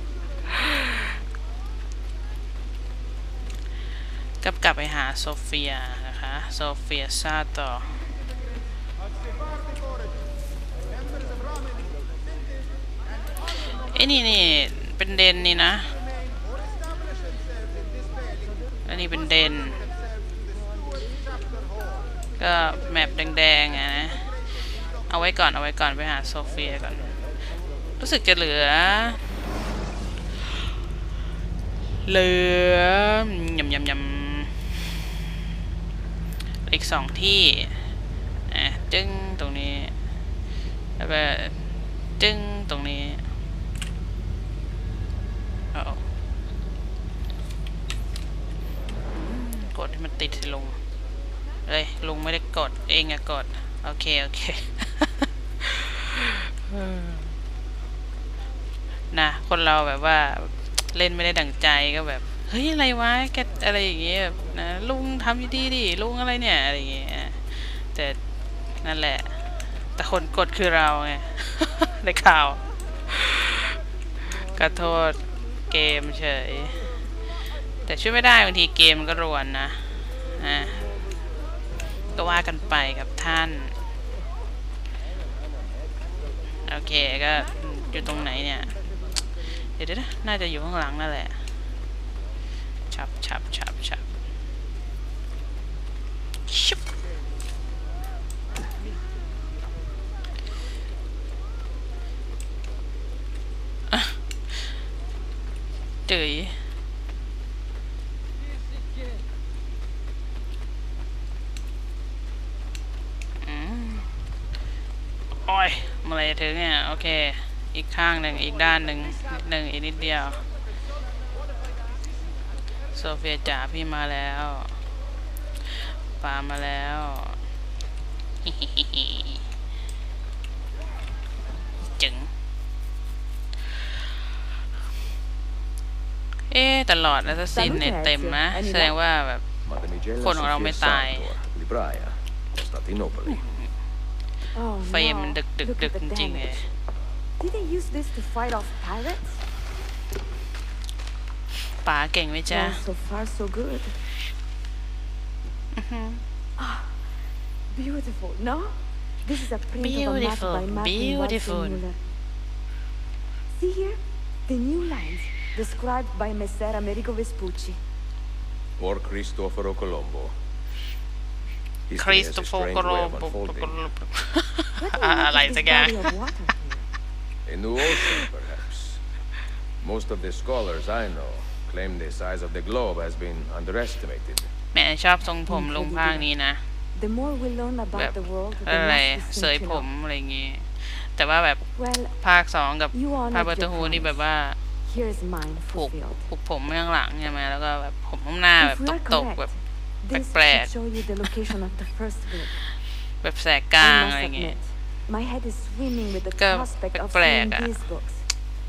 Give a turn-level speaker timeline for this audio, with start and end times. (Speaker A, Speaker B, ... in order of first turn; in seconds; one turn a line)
Speaker A: 0.5-1.0
Speaker A: 4.4-8.1
Speaker A: 13.7-16.0
Speaker A: 18.9-19.9
Speaker A: 22.4-24.4
Speaker A: 25.1-27.2
Speaker A: 28.0-29.2
Speaker A: 32.0-35.0
Speaker A: 36.6-37.9
Speaker A: 38.5-40.0
Speaker A: 41.0-43.2
Speaker A: 45.7-46.0
Speaker A: 49.1-50.8
Speaker A: 51.7-57.4
Speaker A: 59.1-68.2
Speaker A: 68.8-76.9
Speaker A: 77.8-80.8
Speaker A: 82.1-83.7
Speaker A: 86.7-88.8
Speaker A: 89.6-91.4
Speaker A: 92.9-94.0
Speaker A: 96.5-96.8
Speaker A: 106.1-106.7
Speaker A: 113.4-114.1
Speaker A: 115.5-120.5
Speaker A: 122.9-124.8
Speaker A: 126.2-127.4
Speaker A: 128.4-129.4
Speaker A: 132.0-132.3
Speaker A: 136.5-139.4
Speaker B: 137.5-138.9
Speaker C: 139.7-143.4
Speaker A: 140.2-141.3
Speaker A: 143.3-143.7
Speaker B: 144.5-146.6
Speaker A: 144.8-146.7
Speaker B: 147.4-149.4
Speaker A: 151.8-152.8
Speaker B: 152.5-154.0
Speaker A: 155.8-156.2
Speaker B: 156.6-157.0
Speaker B: 157.7-162.0
Speaker A: 159.8-161.8
Speaker B: 163.5-167.8
Speaker C: 168.8-170.3
Speaker C: 171.9-173.8
Speaker A: 172.0-176.2
Speaker B: 174.8-176.8
Speaker C: 177.5-179.0
Speaker C: 179.8-184.5
Speaker A: 184.7-186.6
Speaker B: 185.5-186.3
Speaker B: 186.9-189.9
Speaker A: 187.9-194.6
Speaker B: 191.8-192.2
Speaker B: 192.9-194.2
Speaker B: 194.8-196.2
Speaker A: 195.7-199.5
Speaker B: 198.6-202.6
Speaker A: 200.1-201.4
Speaker A: 203.2-204.6
Speaker B: 203.8-208.3
Speaker A: 206.3-207.8